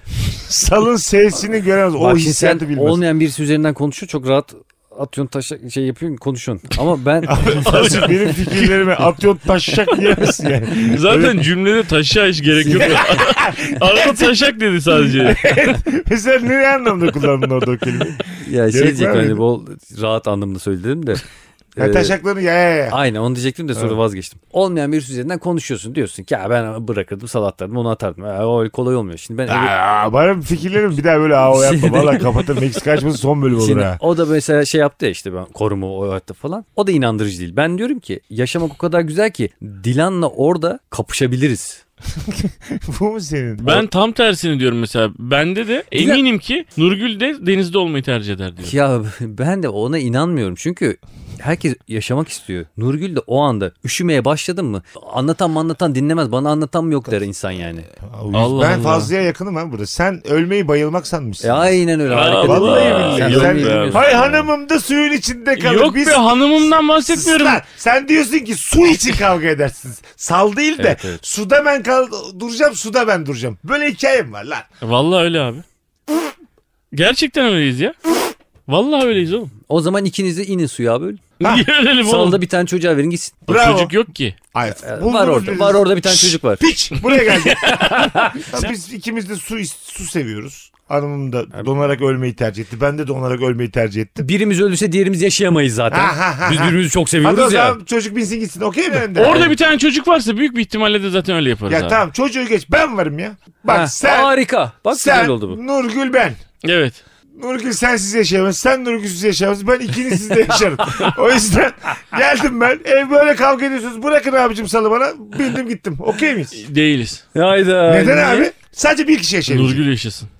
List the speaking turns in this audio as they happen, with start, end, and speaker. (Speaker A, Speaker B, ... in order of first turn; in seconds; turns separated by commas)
Speaker A: 0.3-3.0, Speaker B: 2.0-7.9, Speaker A: 7.3-11.4, Speaker C: 7.6-8.9, Speaker C: 10.8-15.4, Speaker B: 12.6-13.0, Speaker A: 12.8-14.3, Speaker A: 15.1-19.4, Speaker B: 18.3-21.2, Speaker B: 21.8-22.2, Speaker A: 21.8-23.0, Speaker B: 22.9-29.8, Speaker A: 29.5-34.0, Speaker B: 31.5-32.5, Speaker B: 33.5-41.8, Speaker A: 42.2-43.9, Speaker C: 43.6-48.7, Speaker B: 45.9-46.2, Speaker B: 48.6-57.9, Speaker A: 58.0-74.7, Speaker C: 58.3-59.1, Speaker B: 61.4-64.5, Speaker C: 62.1-64.1, Speaker C: 65.6-67.6, Speaker B: 70.8-71.2, Speaker C: 74.8-75.6, Speaker C: 76.9-78.0, Speaker C: 78.7-79.5, Speaker B: 79.7-81.3, Speaker A: 81.4-81.7, Speaker C: 81.4-82.4, Speaker B: 82.0-83.5, Speaker A: 83.5-84.0, Speaker C: 83.5-84.4, Speaker A: 84.5-94.2, Speaker B: 84.7-86.7, Speaker C: 87.0-88.7, Speaker B: 87.7-88.5, Speaker B: 94.2-97.8, Speaker A: 95.9-99.5, Speaker C: 99.2-102.0, Speaker B: 99.2-99.5, Speaker A: 101.7-104.3, Speaker B: 103.7-105.6, Speaker A: 104.9-106.4, Speaker C: 106.6-107.0, Speaker A: 107.3-116.6, Speaker C: 116.6-117.2, Speaker B: 117.3-118.5, Speaker A: 117.8-119.8, Speaker C: 119.5-120.3